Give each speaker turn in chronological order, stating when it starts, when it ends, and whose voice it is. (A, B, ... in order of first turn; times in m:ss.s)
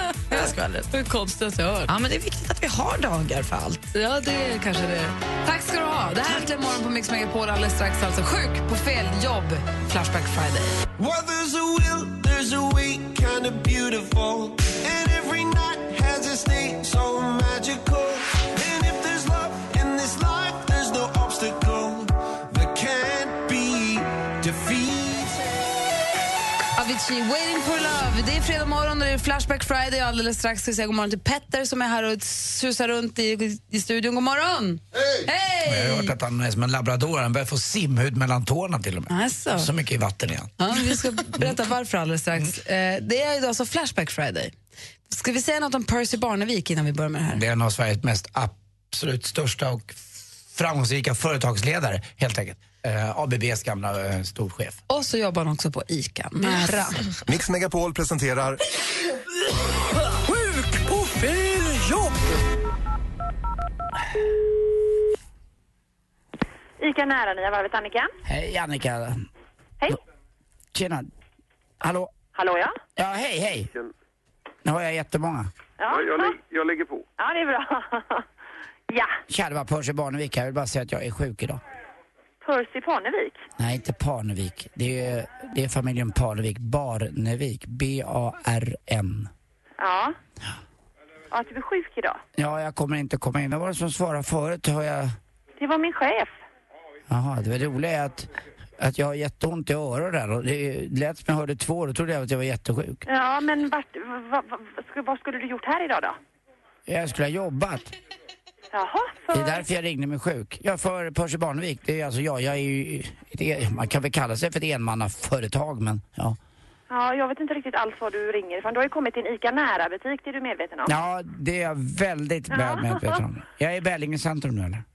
0:00.3-0:00.9 A
0:00.3-0:01.9 B
0:01.9-0:03.9 A
0:03.9-0:10.8 B
0:11.0-0:25.6 C
0:26.8-0:36.1 B
0:35.6-0:40.5 D
0:39.1-0:39.7 B
0:40.6-0:44.5 B
0:45.1-0:47.4 B
0:47.3-0:54.8 D
0:54.9-0:57.0 B
0:57.2-0:58.6 C
1:06.8-1:08.1 E
1:08.2-1:09.2 D
1:10.7-1:11.1 D
1:11.8-1:12.1 D
1:12.3-1:12.8 E
1:13.0-1:13.7 D
1:14.6-1:15.5 D
1:15.8-1:16.4 E
1:17.2-1:18.2 E
1:18.9-1:19.1 E
1:19.3-1:21.6 D
1:22.4-1:23.4 E
1:23.6-1:29.3 D
1:29.8-1:30.2 E
1:31.3-1:32.2 E
1:32.4-1:35.2 D
1:35.6-1:36.3 E
1:37.1-1:43.0 D
1:43.0-1:46.2 E
1:46.8-1:47.9 D
1:48.7-1:49.6 E
1:49.3-1:56.4 D
1:56.9-2:01.0 E
2:00.8-2:04.8 D
2:02.5-2:03.2 E